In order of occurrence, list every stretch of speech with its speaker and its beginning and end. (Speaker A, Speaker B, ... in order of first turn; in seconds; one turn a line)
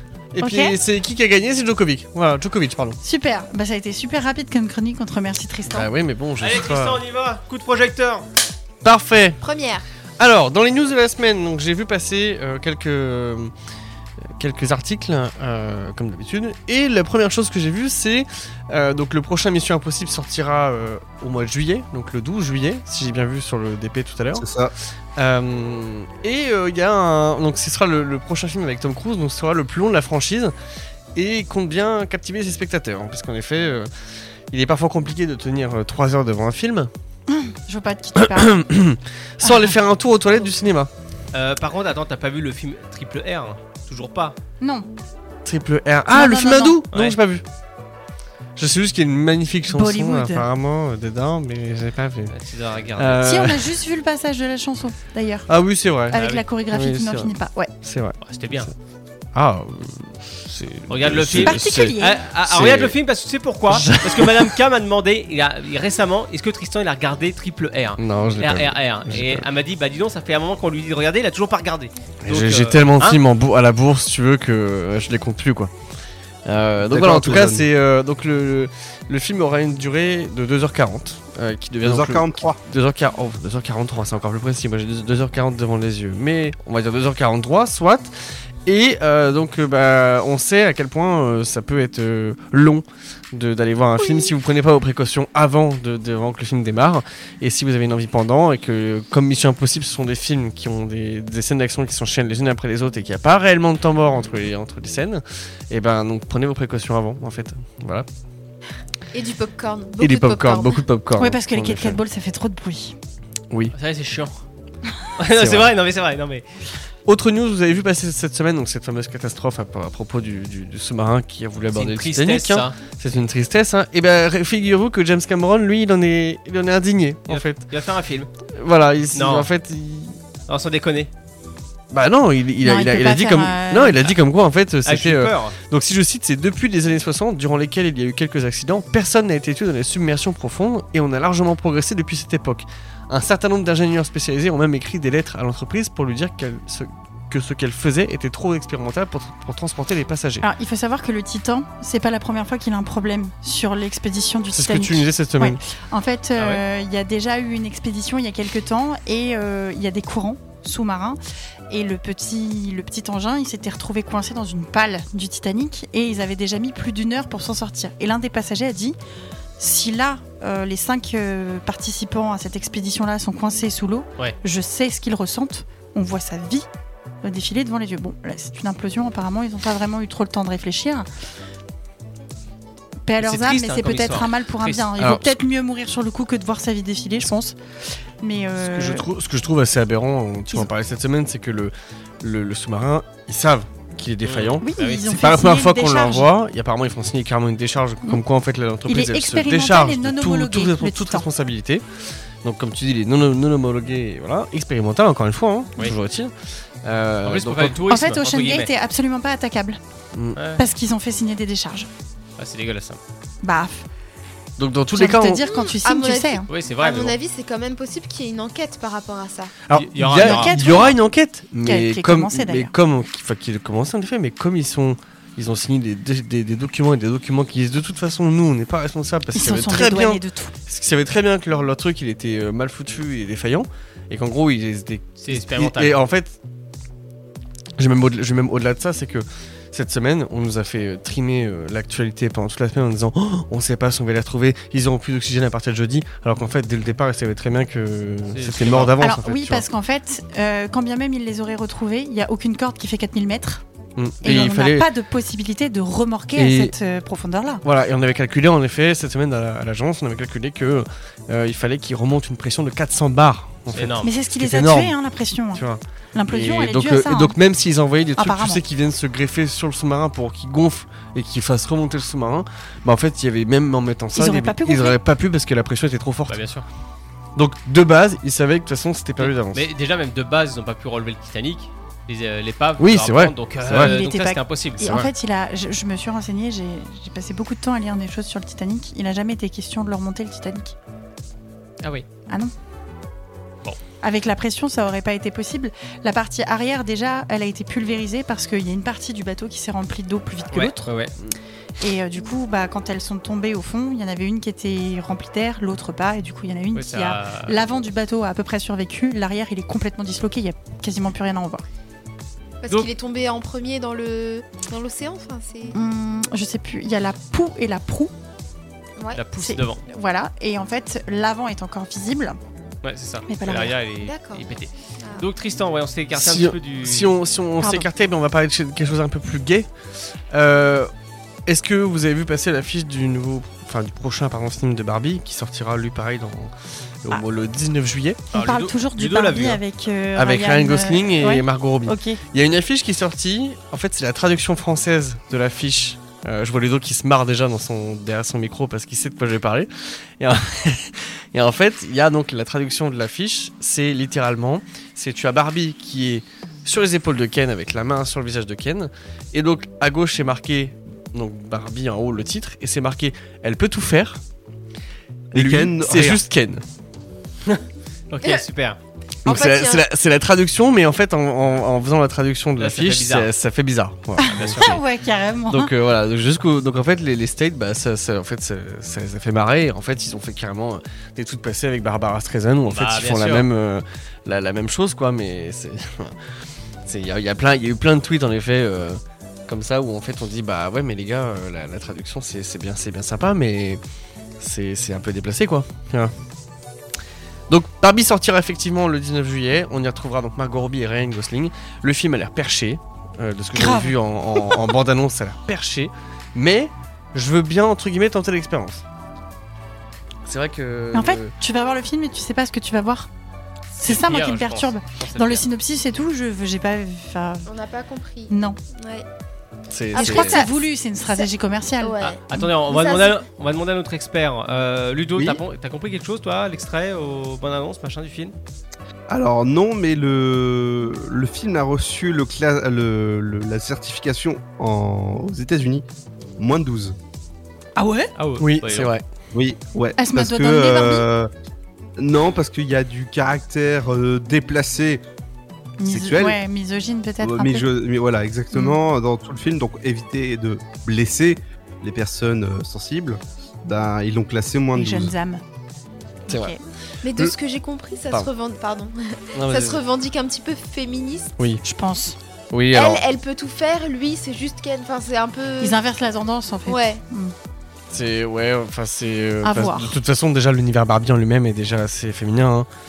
Speaker A: 0.3-3.0
Speaker B: 0.4-0.8
Speaker B: 3.0-5.9
Speaker A: 5.7-7.0
Speaker C: 6.4-8.2
Speaker A: 8.8-9.4
Speaker D: 9.4-9.8
Speaker A: 10.2-13.5
Speaker A: 14.2-24.4
Speaker E: 24.4-24.7
Speaker A: 25.1-30.5
Speaker A: 31.1-33.9
Speaker A: 34.5-36.9
Speaker B: 37.3-38.6
Speaker A: 38.1-40.9
Speaker B: 39.4-39.7
Speaker C: 41.3-44.4
Speaker B: 44.6-44.9
Speaker A: 45.4-47.4
Speaker B: 46.1-46.8
Speaker C: 46.9-47.2
Speaker A: 48.5-52.3
Speaker B: 49.7-50.5
Speaker C: 52.3-53.2
Speaker A: 53.0-53.7
Speaker B: 53.2-55.5
Speaker A: 55.5-58.7
Speaker B: 56.1-57.7
Speaker C: 56.1-56.4
Speaker C: 58.2-58.7
Speaker A: 59.3-62.9
Speaker C: 60.9-73.2
Speaker B: 61.3-62.2
Speaker A: 63.7-64.6
Speaker A: 68.0-69.5
Speaker A: 72.2-75.7
Speaker A: 76.5-88.1
Speaker E: 76.9-77.7
Speaker E: 81.8-82.6
Speaker A: 88.6-108.1
Speaker D: 109.1-110.8
Speaker A: 110.0-112.0
Speaker B: 111.2-113.0
Speaker C: 113.7-114.4
Speaker C: 115.2-116.5
Speaker A: 115.3-115.7
Speaker A: 117.0-127.6
Speaker C: 121.7-122.8
Speaker C: 127.3-128.3
Speaker A: 128.5-130.2
Speaker C: 129.1-129.5
Speaker C: 130.5-131.1
Speaker A: 131.9-150.5
Speaker B: 132.6-134.1
Speaker C: 134.8-135.6
Speaker B: 150.4-168.9
Speaker A: 154.5-155.6
Speaker B: 169.6-176.7
Speaker B: 177.2-181.1
Speaker B: 183.0-187.6
Speaker C: 183.2-184.8
Speaker A: 185.0-185.4
Speaker B: 188.2-189.1
Speaker A: 188.6-201.9
Speaker C: 194.2-195.1
Speaker B: 194.6-196.3
Speaker B: 198.9-201.2
Speaker A: 202.4-207.8
Speaker C: 207.2-208.7
Speaker B: 207.9-209.8
Speaker A: 210.1-210.4
Speaker C: 210.3-210.6
Speaker B: 210.6-211.9
Speaker C: 212.4-213.0
Speaker B: 213.4-213.8
Speaker A: 214.6-215.4
Speaker B: 214.9-216.4
Speaker D: 215.4-219.5
Speaker C: 216.5-217.1
Speaker A: 219.7-236.3
Speaker C: 219.7-220.6
Speaker B: 220.1-221.0
Speaker B: 221.6-222.7
Speaker B: 229.3-230.5
Speaker C: 235.2-236.0
Speaker A: 237.8-249.6
Speaker C: 248.3-248.9
Speaker B: 249.0-253.6
Speaker A: 253.9-254.9
Speaker B: 254.2-257.6
Speaker A: 256.4-256.7
Speaker A: 257.6-264.9
Speaker C: 263.7-264.1
Speaker B: 264.0-265.6
Speaker A: 265.5-276.4
Speaker B: 266.1-267.4
Speaker B: 268.2-268.6
Speaker B: 274.1-275.0
Speaker C: 276.3-276.6
Speaker A: 277.4-279.6
Speaker C: 279.2-284.9
Speaker A: 282.8-284.0
Speaker B: 283.7-290.7
Speaker A: 284.8-285.1
Speaker B: 294.0-300.9
Speaker C: 300.5-301.1
Speaker B: 301.8-311.6
Speaker C: 306.7-307.6
Speaker D: 312.6-315.8
Speaker B: 315.7-318.1
Speaker C: 319.1-319.8
Speaker B: 319.4-322.4
Speaker C: 322.8-327.1
Speaker B: 323.3-323.8
Speaker D: 324.0-324.4
Speaker D: 325.0-325.2
Speaker A: 326.1-329.7
Speaker B: 327.6-327.9
Speaker A: 330.3-330.9
Speaker A: 331.4-338.3
Speaker C: 338.3-339.6
Speaker B: 338.3-342.2
Speaker A: 340.1-364.2
Speaker E: 365.3-366.2
Speaker A: 365.3-366.6
Speaker C: 367.5-368.8
Speaker D: 369.2-369.8
Speaker A: 369.2-374.8
Speaker C: 372.6-373.3
Speaker B: 374.2-375.7
Speaker C: 374.2-374.8
Speaker A: 375.5-386.2
Speaker C: 382.7-383.4
Speaker A: 386.8-393.8
Speaker A: 394.4-396.1
Speaker A: 397.5-408.8
Speaker B: 403.6-404.6
Speaker A: 410.2-411.3
Speaker B: 410.9-413.1
Speaker B: 413.7-417.5
Speaker C: 413.8-415.4
Speaker D: 417.4-419.1
Speaker B: 418.3-418.6
Speaker A: 419.7-420.5
Speaker D: 419.9-420.5
Speaker B: 419.9-422.5
Speaker D: 421.8-423.2
Speaker C: 422.1-428.3
Speaker E: 425.1-425.4
Speaker E: 429.1-435.8
Speaker E: 436.4-436.9
Speaker B: 437.8-438.1
Speaker C: 438.2-438.9
Speaker A: 438.4-439.0
Speaker E: 439.3-441.3
Speaker B: 440.0-441.1
Speaker E: 442.0-445.0
Speaker B: 445.8-447.7
Speaker E: 445.8-446.4
Speaker E: 447.2-455.1
Speaker B: 448.5-448.8
Speaker B: 454.7-455.4
Speaker B: 456.3-456.6
Speaker A: 456.3-456.6
Speaker D: 457.0-461.3
Speaker A: 459.3-459.8
Speaker A: 461.4-461.6
Speaker B: 461.6-462.2
Speaker A: 462.5-463.0
Speaker D: 462.7-465.8
Speaker B: 465.6-467.3
Speaker D: 466.6-467.0
Speaker A: 467.9-472.7
Speaker B: 469.4-469.9